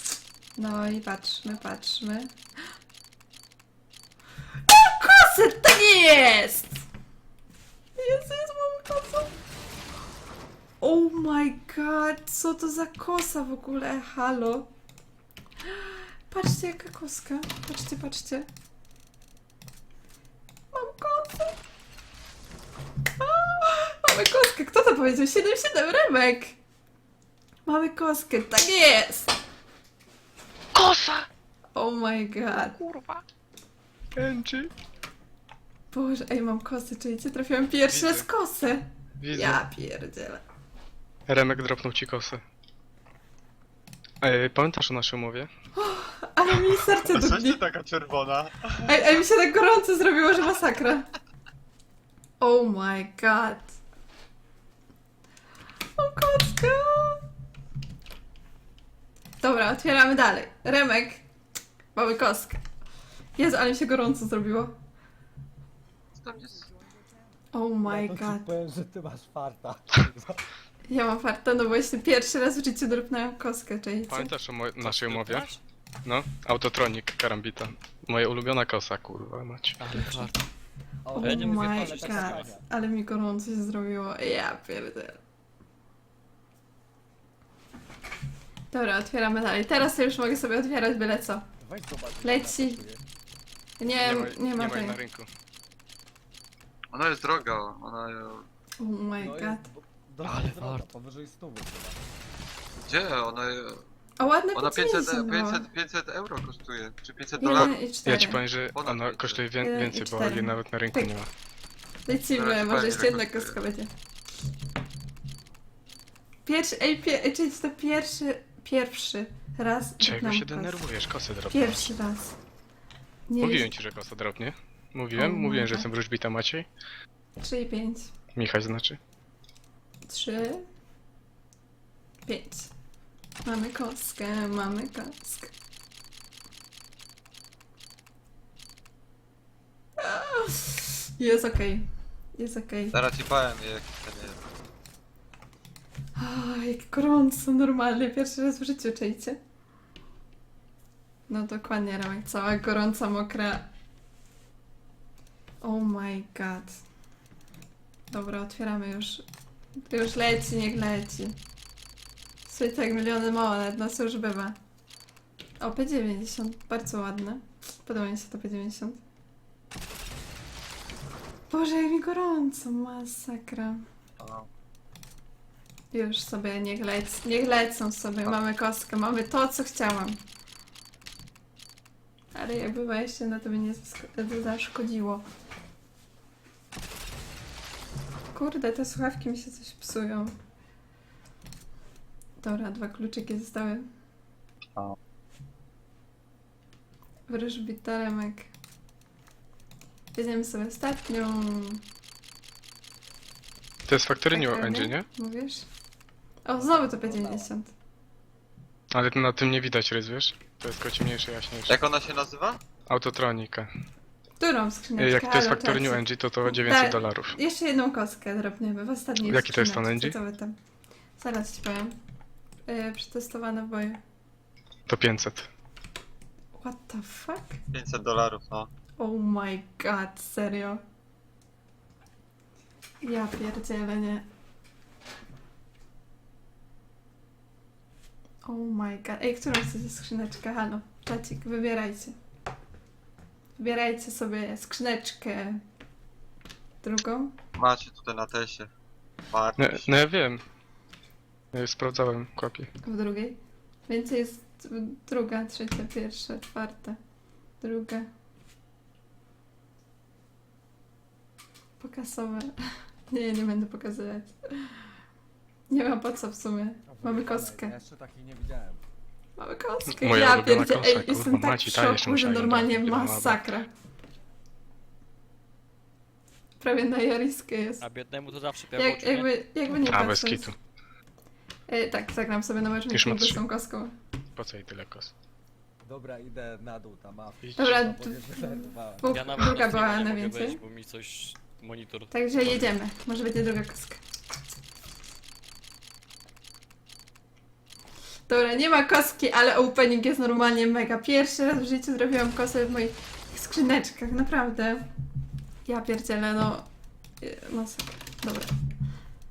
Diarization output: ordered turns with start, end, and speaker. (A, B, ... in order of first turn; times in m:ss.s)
0:00.6-0:02.3 A
0:04.5-0:06.8 A
0:08.0-0:09.4 A
0:10.8-0:14.7 A
0:15.6-0:18.5 A
0:20.7-0:21.6 A
0:23.2-0:26.6 A
0:27.7-0:29.4 A
0:30.7-0:31.3 B
0:31.8-0:32.8 A
0:32.6-0:33.2 B
0:34.2-0:34.7 B
0:35.9-0:40.4 A
0:37.9-0:38.3 B
0:39.2-0:39.6 B
0:41.3-0:42.4 B
0:44.2-0:45.5 B
0:45.8-0:47.6 A
0:46.9-0:49.0 C
0:48.9-0:51.1 A
0:52.4-0:53.8 A
0:56.0-0:57.2 A
0:59.4-1:01.3 A
1:02.0-1:02.6 A
1:03.4-1:04.8 A
1:06.2-1:06.7 C
1:07.5-1:08.5 A
1:07.9-1:10.4 D
1:10.9-1:14.3 A
1:14.1-1:15.5 B
1:14.8-1:15.6 E
1:16.0-1:19.9 B
1:19.8-1:20.4 E
1:20.0-1:20.3 A
1:21.0-1:22.7 D
1:21.2-1:25.2 A
1:21.2-1:22.5 E
1:28.7-1:31.5 A
1:31.6-1:33.0 D
1:32.2-1:32.8 A
1:33.8-1:35.0 A
1:34.0-1:35.3 B
1:36.9-1:38.5 C
1:38.8-1:39.6 A
1:39.2-1:42.0 D
1:40.2-1:40.9 E
1:42.9-1:43.9 C
1:44.2-1:45.7 A
1:44.5-1:47.7 C
1:47.4-1:48.4 A
1:47.6-1:51.3 B
1:48.7-1:49.4 C
1:49.6-1:51.2 A
1:52.1-1:53.9 A
1:52.3-1:53.6 C
1:56.5-2:00.9 A
2:00.0-2:01.9 B
2:01.5-2:02.4 A
2:03.3-2:03.7 A
2:03.4-2:06.7 B
2:05.1-2:05.9 A
2:07.4-2:08.2 A
2:08.3-2:09.0 B
2:10.1-2:10.6 A
2:12.3-2:12.7 A
2:13.4-2:15.5 A
2:20.0-2:23.0 A
2:22.9-2:24.4 C
2:26.2-2:29.4 A
2:31.3-2:33.7 A
2:35.6-2:36.8 A
2:38.1-2:39.2 A
2:39.8-2:41.4 A
2:42.5-2:44.6 A
2:45.6-2:49.0 A
2:51.5-2:53.9 A
2:54.2-2:54.5 C
2:55.9-3:00.2 A
3:02.3-3:05.3 A
3:08.3-3:10.4 A
3:12.4-3:13.9 A
3:17.3-3:18.5 A
3:20.1-3:21.8 A
3:23.9-3:25.1 B
3:24.2-3:25.7 A
3:26.4-3:27.7 A
3:26.6-3:27.5 D
3:28.9-3:31.8 B
3:31.7-3:32.6 C
3:32.9-3:33.7 B
3:34.4-3:40.5 A
3:35.0-3:37.4 B
3:39.2-3:40.2 B
3:41.2-3:41.9 A
3:42.7-3:44.0 A
3:44.9-3:45.5 B
3:46.6-3:47.6 A
3:47.7-3:48.7 C
3:49.0-3:50.8 A
3:53.0-3:54.2 A
3:58.4-4:02.2 A
4:03.6-4:05.6 A
4:06.8-4:07.4 A
4:07.6-4:08.7 C
4:09.3-4:10.1 C
4:09.6-4:10.4 B
4:11.5-4:12.7 B
4:12.8-4:17.0 A
4:17.6-4:18.1 A
4:21.8-4:22.6 A
4:23.1-4:24.8 A
4:25.7-4:27.8 A
4:26.9-4:28.8 D
4:29.4-4:33.7 A
4:29.9-4:33.5 B
4:36.6-4:37.8 A
4:37.8-4:39.3 E
4:38.7-4:40.5 A
4:39.7-4:40.6 B
4:41.7-4:43.9 A
4:42.9-4:43.4 B
4:44.4-4:45.1 B
4:45.8-4:49.3 D
4:47.4-4:47.8 B
4:47.6-4:50.6 A
4:49.1-4:52.7 E
4:52.1-4:54.0 A
4:58.3-5:04.9 A
5:05.7-5:06.7 A
5:07.2-5:08.6 A